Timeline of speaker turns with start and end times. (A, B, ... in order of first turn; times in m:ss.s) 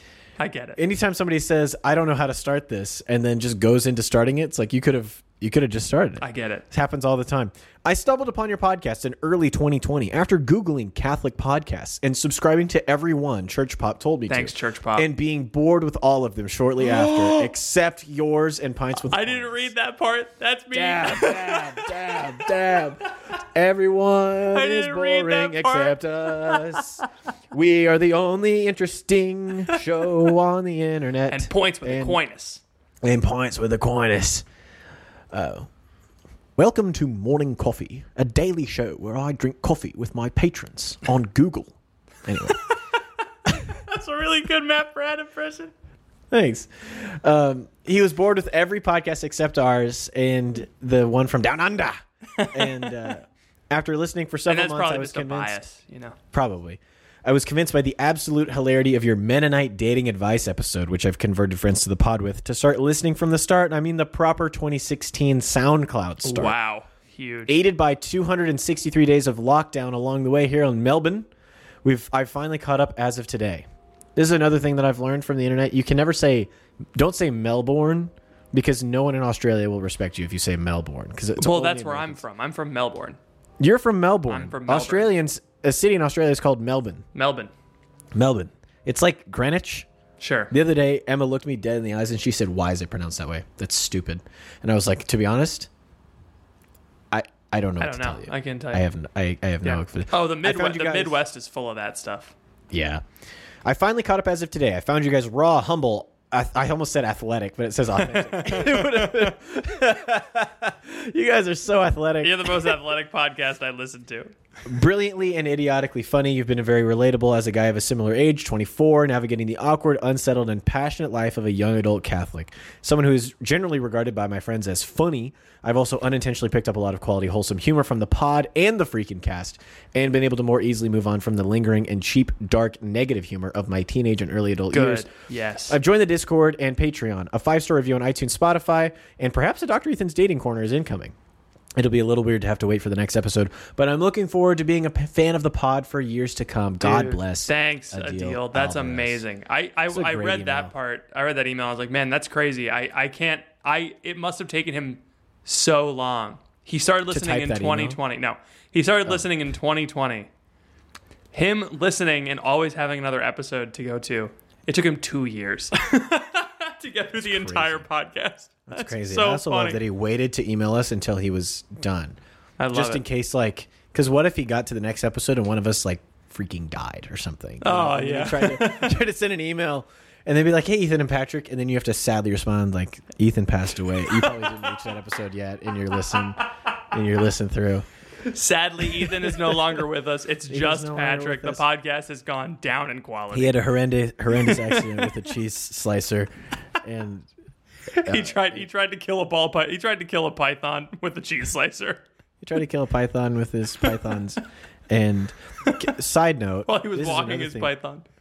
0:00.4-0:00.8 A
0:00.8-0:19.7 B
0:06.2-0:06.6 A
0:14.3-0:15.1 A
0:16.8-0:17.5 A
0:19.1-0:22.2 A
0:20.7-0:32.2 B
0:24.5-0:26.9 A
0:31.3-0:32.6 A
0:33.0-0:34.4 B
0:35.3-0:35.7 B
0:36.6-0:42.6 B
0:42.4-0:42.9 A
0:43.5-0:45.7 A
0:46.3-0:55.6 B
0:52.4-0:52.9 A
0:54.5-0:56.2 A
0:56.3-1:06.5 B
1:06.2-1:07.6 A
1:07.5-1:11.3 B
1:11.8-1:13.6 B
1:14.2-1:22.2 B
1:21.4-1:23.2 A
1:23.6-1:27.0 B
1:24.3-1:25.2 A
1:27.1-1:27.5 A
1:28.1-1:29.9 B
1:30.2-1:30.5 A
1:30.5-1:35.7 B
1:37.1-1:41.2 B
1:37.8-1:38.9 A
1:39.6-1:42.3 A
1:42.7-1:43.0 B
1:43.6-1:52.7 B
1:48.0-1:49.3 A
1:52.2-1:54.3 A
1:54.6-2:15.1 B
2:14.7-2:15.8 A
2:15.7-2:21.1 B
2:21.8-2:29.2 B
2:26.8-2:40.3 A
2:29.9-2:30.7 B
2:37.1-2:38.0 B
2:41.3-2:49.8 A
2:47.2-2:47.8 B
2:48.7-2:52.2 B
2:52.6-2:53.0 A
2:52.7-3:07.8 B
2:57.6-2:59.0 A
3:04.1-3:04.5 A
3:08.3-3:13.6 A
3:09.0-3:09.6 B
3:10.5-3:11.6 B
3:13.3-3:17.3 B
3:14.3-3:15.1 A
3:17.9-3:22.0 A
3:18.0-3:18.6 B
3:22.4-3:27.7 B
3:26.7-3:28.0 A